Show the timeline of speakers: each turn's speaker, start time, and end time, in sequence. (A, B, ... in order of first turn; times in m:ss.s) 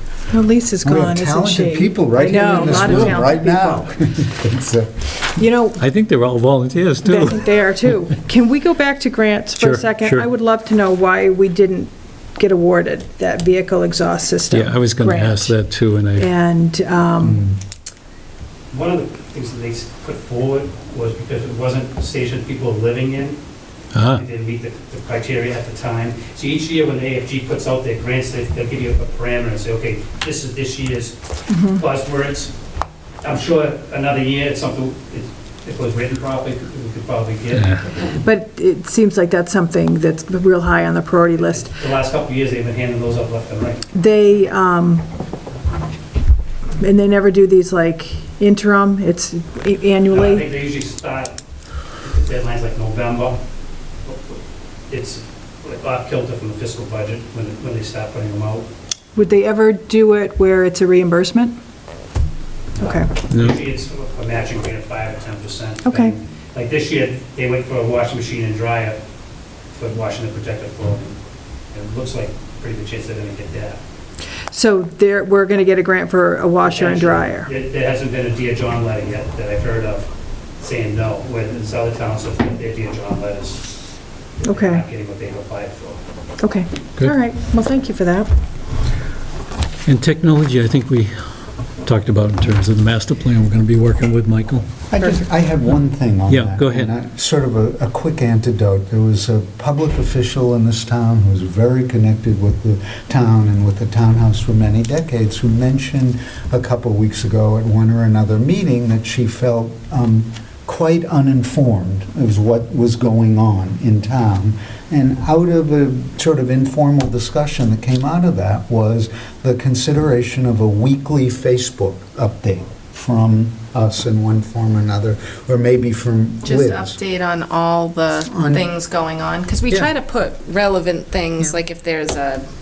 0:00.3-0:03.3 A
0:00.8-0:04.9 B
0:02.3-0:03.8 C
0:05.4-0:05.8 A
0:05.8-0:07.5 D
0:07.0-0:15.6 A
0:09.6-0:10.3 D
0:14.5-0:16.3 D
0:16.2-0:17.4 A
0:17.2-0:17.5 D
0:18.7-0:23.4 E
0:23.9-0:24.2 D
0:24.1-0:32.5 E
0:31.5-0:31.8 A
0:33.2-0:37.8 E
0:37.5-0:37.9 D
0:38.1-0:41.7 A
0:41.5-0:43.8 E
0:43.9-0:45.1 A
0:46.8-0:50.5 A
0:50.1-0:51.4 E
0:52.0-0:53.4 E
0:54.0-0:58.7 E
0:59.2-1:01.6 A
1:02.8-1:03.1 A
1:02.8-1:09.0 E
1:03.3-1:03.6 D
1:05.9-1:06.2 A
1:09.7-1:11.2 E
1:11.7-1:13.8 E
1:14.5-1:17.5 A
1:16.7-1:20.1 E
1:20.6-1:23.7 E
1:24.4-1:26.0 E
1:24.5-1:24.8 A
1:26.4-1:28.3 A
1:29.9-1:31.2 D
1:31.8-1:34.7 D
1:34.9-2:07.0 B
1:36.3-1:36.9 D
2:06.4-2:12.4 C
2:08.3-2:08.7 B